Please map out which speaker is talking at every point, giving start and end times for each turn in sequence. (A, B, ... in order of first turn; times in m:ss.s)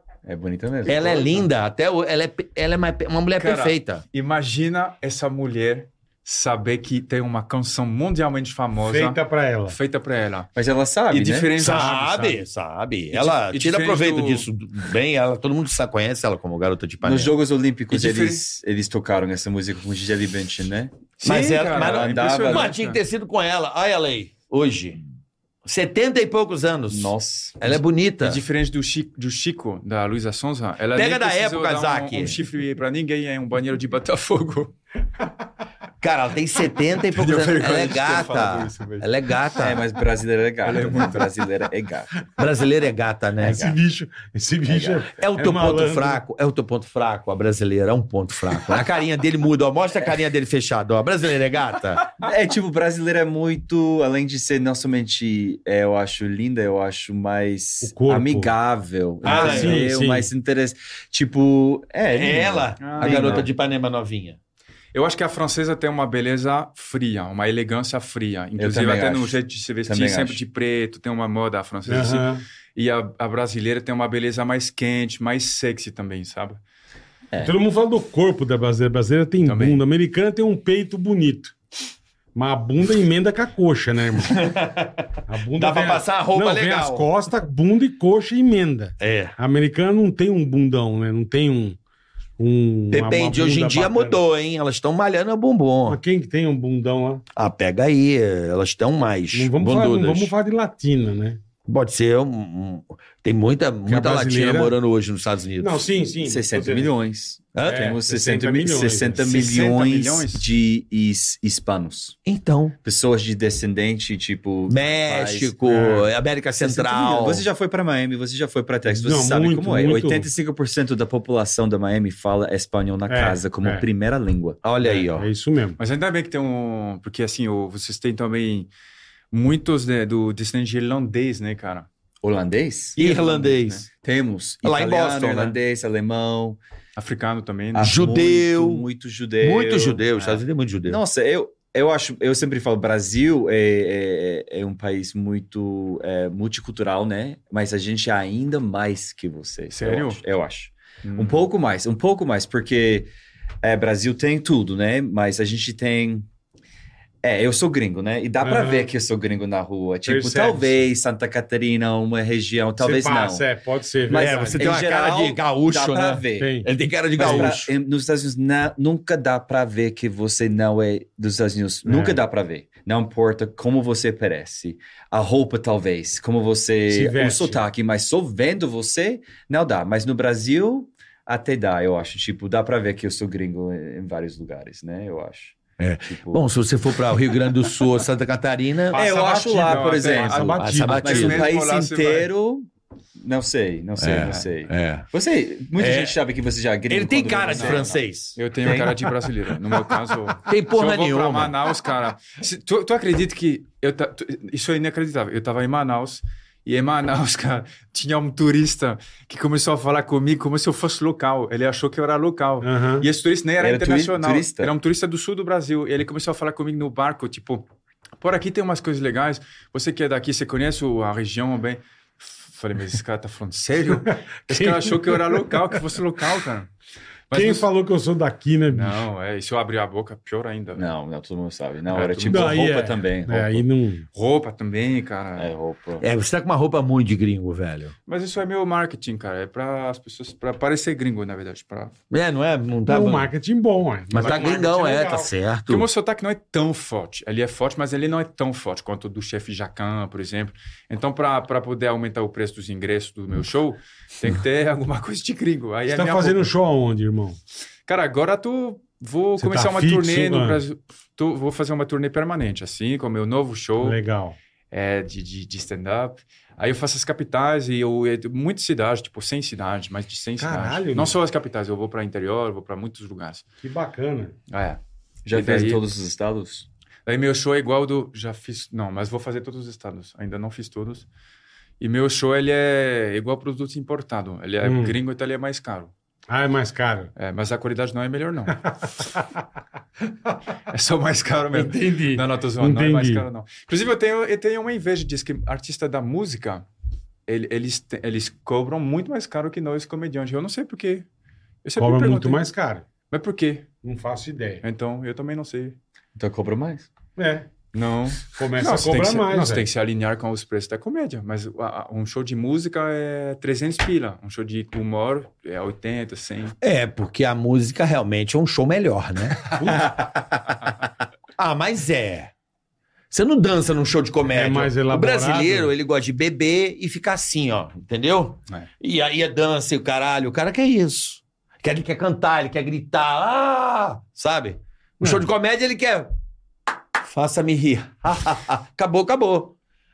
0:00.3-0:01.5 A
0:00.8-0:04.0 B
0:03.4-0:10.5 C
0:08.8-0:09.8 D
0:10.6-0:11.5 A
0:11.1-0:12.0 C
0:11.6-0:17.3 B
0:11.6-0:12.4 D
0:13.1-0:14.4 C
0:17.0-0:21.0 A
0:17.9-0:18.4 C
0:21.2-0:23.0 C
0:21.2-0:25.0 B
0:21.7-0:22.7 A
0:25.6-0:28.4 B
0:26.9-0:27.7 A
0:28.2-0:34.7 C
0:30.9-0:32.4 B
0:36.0-0:39.8 B
0:37.1-0:39.1 C
0:39.6-0:42.2 A
0:40.6-0:41.3 C
0:42.4-0:43.7 B
0:43.4-0:46.2 D
0:43.4-0:43.8 A
0:44.6-0:45.0 A
0:45.1-0:52.1 B
0:52.2-1:03.5 A
0:57.8-0:58.5 D
0:59.2-1:00.3 D
0:59.2-0:59.9 B
1:02.1-1:04.4 B
1:02.8-1:03.5 C
1:04.9-1:16.6 C
1:08.6-1:10.4 A
1:11.9-1:12.4 D
1:17.4-1:21.5 D
1:19.4-1:19.8 C
1:22.4-1:24.4 D
1:24.2-1:27.1 B
1:25.3-1:31.8 D
1:29.0-1:29.4 B
1:32.4-1:34.2 D
1:32.9-1:36.0 B
1:35.9-1:37.2 D
1:37.4-1:40.3 B
1:39.3-1:41.4 D
1:41.6-1:45.9 B
1:43.9-1:44.7 D
1:45.6-1:46.9 D
1:46.2-1:52.2 A
1:47.6-1:47.9 B
1:47.6-1:49.2 D
1:49.2-1:50.5 C
1:52.2-1:52.8 B
1:52.8-1:55.7 A
1:54.7-1:57.5 B
1:55.7-1:56.0 D
1:56.6-2:04.6 A
1:58.9-2:00.3 D
2:03.1-2:03.8 D
2:04.6-2:05.3 B
2:04.8-2:05.8 D
2:05.8-2:08.7 C
2:09.3-2:11.9 C
2:12.2-2:16.6 A
2:13.0-2:13.8 B
2:14.6-2:15.6 B
2:17.0-2:18.1 C
2:17.7-2:33.1 A
2:17.8-2:18.8 B
2:19.4-2:21.0 B
2:29.7-2:30.2 C
2:31.0-2:31.4 C
2:33.6-2:36.3 A
2:37.2-2:43.5 A
2:38.4-2:38.9 D
2:40.1-2:40.8 D
2:42.8-2:44.7 D
2:44.1-2:46.6 A
2:44.5-2:47.7 B
2:46.4-2:47.5 D
2:47.2-3:06.4 A
2:51.9-2:52.2 D
2:56.9-2:57.6 D
3:05.8-3:09.0 B
3:08.9-3:18.0 A
3:08.9-3:12.3 C
3:09.0-3:11.0 D
3:10.5-3:11.5 B
3:14.0-3:15.1 B
3:14.2-3:14.5 C
3:15.7-3:16.2 B
3:16.9-3:19.6 B
3:17.5-3:37.6 C
3:20.4-3:21.7 B
3:32.6-3:33.1 D
3:33.6-3:34.7 A
3:38.2-3:46.7 C
3:44.5-3:45.8 D
3:47.3-3:47.7 C
3:47.3-3:49.1 D
3:48.7-3:50.9 C
3:50.7-3:53.6 A
3:51.9-3:52.6 C
3:52.3-3:54.1 D
3:54.1-3:55.5 C
3:55.4-3:56.1 A
3:56.0-3:57.9 B
3:58.1-4:02.0 C
4:02.1-4:03.3 B
4:02.9-4:05.3 D
4:04.1-4:05.9 B
4:04.2-4:04.6 C
4:05.7-4:16.5 C
4:15.9-4:17.4 D
4:17.9-4:24.0 C
4:19.4-4:20.6 D
4:23.8-4:24.4 D
4:24.7-4:33.4 C
4:30.4-4:31.2 D
4:33.6-4:34.3 D
4:34.5-4:35.8 C
4:35.3-4:36.6 A
4:37.1-4:41.1 C
4:41.8-4:45.9 C
4:44.6-4:45.0 D
4:46.3-4:47.1 D
4:47.2-4:48.7 C
4:50.7-4:56.6 C
4:51.5-4:53.2 D
4:57.3-5:01.1 C
5:01.6-5:02.5 C
5:01.8-5:02.8 D
5:03.1-5:03.7 C
5:03.8-5:04.6 D
5:04.6-5:05.8 C
5:06.2-5:06.9 A
5:07.2-5:07.4 D
5:07.7-5:16.6 C
5:08.3-5:09.6 D
5:16.6-5:19.7 B
5:21.4-5:22.3 B
5:23.1-5:36.1 B
5:24.3-5:25.7 D
5:37.0-5:39.6 B